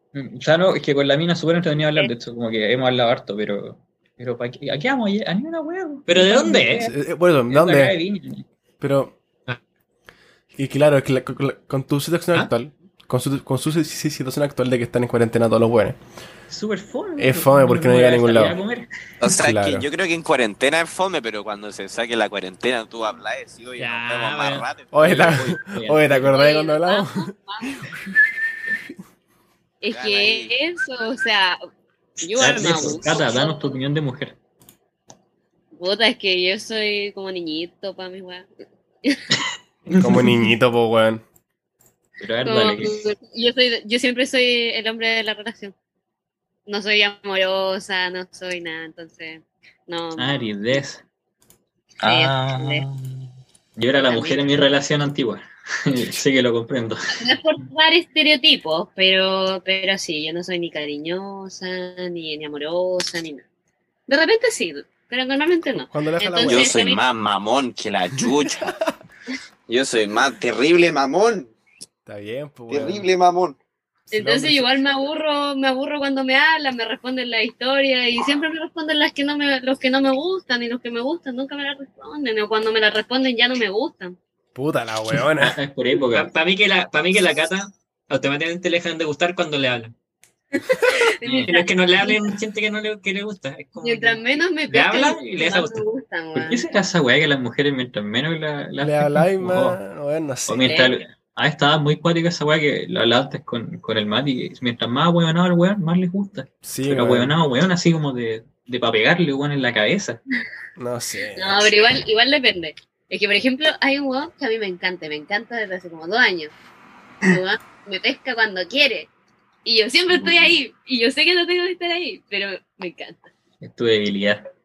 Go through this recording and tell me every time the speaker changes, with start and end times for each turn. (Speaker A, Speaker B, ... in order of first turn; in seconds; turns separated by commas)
Speaker A: 0.1-7.0, Speaker B: 6.1-6.9, Speaker C: 6.9-8.0, Speaker A: 7.5-8.5, Speaker C: 8.8-9.2, Speaker C: 10.6-16.0, Speaker A: 16.5-18.9, Speaker C: 17.2-18.6, Speaker D: 19.2-24.9, Speaker C: 19.2-19.9, Speaker B: 23.8-24.7, Speaker C: 24.9-27.9, Speaker A: 25.0-26.4, Speaker E: 26.2-27.9, Speaker E: 29.8-31.6, Speaker D: 29.9-30.6, Speaker E: 32.2-33.8, Speaker A: 32.4-34.4, Speaker B: 32.4-33.0, Speaker E: 35.8-38.5, Speaker A: 39.9-40.3, Speaker C: 40.0-41.2, Speaker A: 42.2-43.0, Speaker E: 42.5-45.8, Speaker E: 46.7-50.8, Speaker A: 50.2-51.0, Speaker D: 52.0-53.2, Speaker E: 52.0-52.9, Speaker A: 53.8-57.1, Speaker E: 54.1-54.5, Speaker E: 57.1-63.4, Speaker E: 64.1-67.0, Speaker C: 65.9-66.9, Speaker D: 66.4-68.7, Speaker D: 69.7-71.5, Speaker C: 72.1-73.1, Speaker D: 72.7-73.6, Speaker E: 74.1-84.2, Speaker C: 74.1-74.8, Speaker C: 84.5-85.6, Speaker A: 85.2-86.3, Speaker B: 86.1-89.9, Speaker E: 90.5-92.3, Speaker A: 91.2-91.5, Speaker B: 91.5-95.8, Speaker E: 93.8-96.7, Speaker A: 96.3-99.8, Speaker C: 98.8-100.9, Speaker A: 100.5-110.2, Speaker E: 100.7-101.0, Speaker C: 106.6-107.4, Speaker C: 110.8-111.7, Speaker E: 111.4-116.5, Speaker E: 117.2-119.1, Speaker E: 119.7-123.3, Speaker A: 123.6-124.5